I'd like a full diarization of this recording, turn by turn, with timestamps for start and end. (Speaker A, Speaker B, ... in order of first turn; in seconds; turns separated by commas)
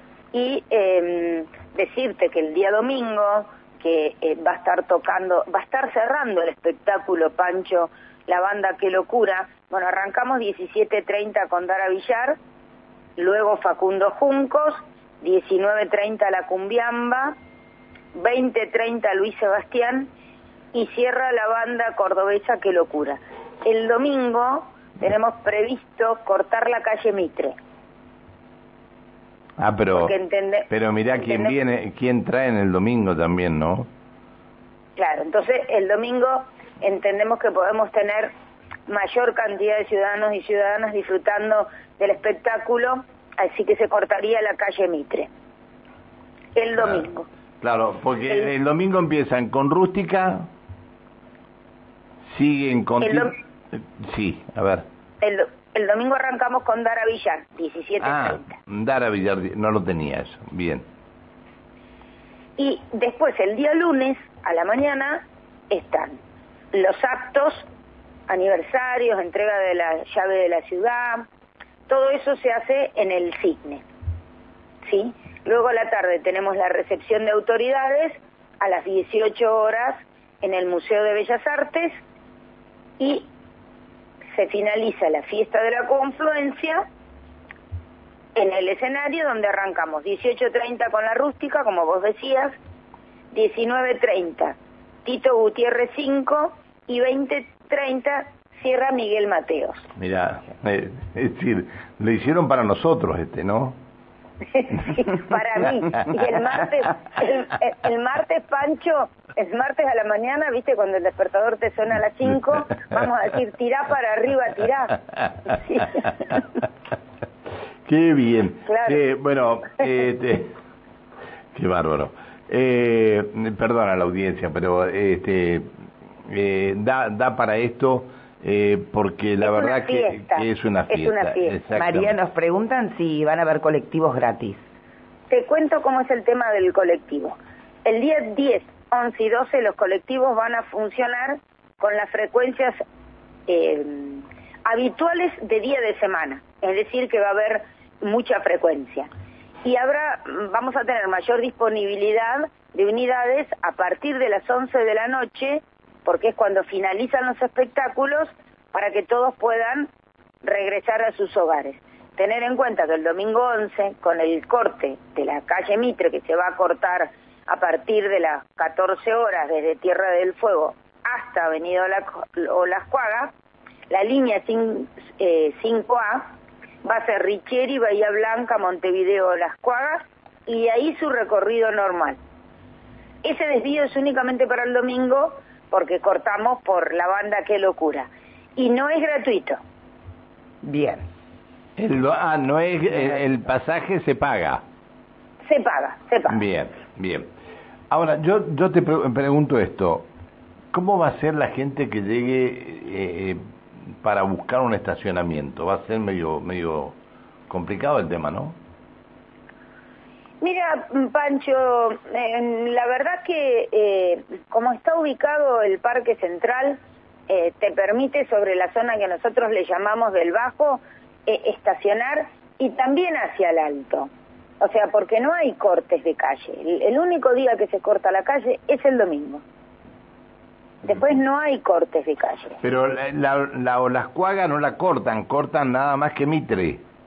Speaker A: 0.3-12.4, Speaker A: 13.2-17.4, Speaker A: 18.1-20.1, Speaker A: 20.7-27.6, Speaker B: 29.6-30.1, Speaker A: 29.9-31.6, Speaker B: 30.7-33.9, Speaker A: 35.0-38.3, Speaker A: 38.9-45.3, Speaker A: 46.5-47.3, Speaker B: 46.8-47.1, Speaker B: 47.6-50.5, Speaker B: 52.3-54.8, Speaker A: 53.0-53.3, Speaker A: 55.2-58.5, Speaker B: 58.0-60.8, Speaker A: 62.6-66.2, Speaker A: 66.7-67.7, Speaker A: 68.3-71.3, Speaker A: 71.9-73.8, Speaker A: 74.8-82.0, Speaker A: 83.0-83.3, Speaker A: 84.3-86.9, Speaker A: 88.4-92.6, Speaker A: 93.3-99.9, Speaker B: 100.0-103.8, Speaker A: 104.5-116.4, Speaker B: 105.9-106.2, Speaker B: 117.9-120.5, Speaker A: 118.7-119.0, Speaker B: 121.5-125.7, Speaker B: 126.3-132.2, Speaker A: 129.4-131.6, Speaker C: 131.7-134.6, Speaker A: 135.3-142.8, Speaker A: 143.5-149.1, Speaker A: 149.6-159.9, Speaker A: 160.4-173.3, Speaker A: 173.9-176.3, Speaker A: 176.8-182.2, Speaker A: 183.2-189.6, Speaker C: 190.6-191.1, Speaker B: 191.8-194.6, Speaker A: 195.4-196.4, Speaker B: 196.3-197.3, Speaker B: 197.9-200.1, Speaker B: 200.7-203.4, Speaker B: 204.0-207.0, Speaker B: 207.5-208.6, Speaker A: 210.4-224.1, Speaker A: 224.6-229.4, Speaker A: 230.8-232.6, Speaker B: 232.6-236.8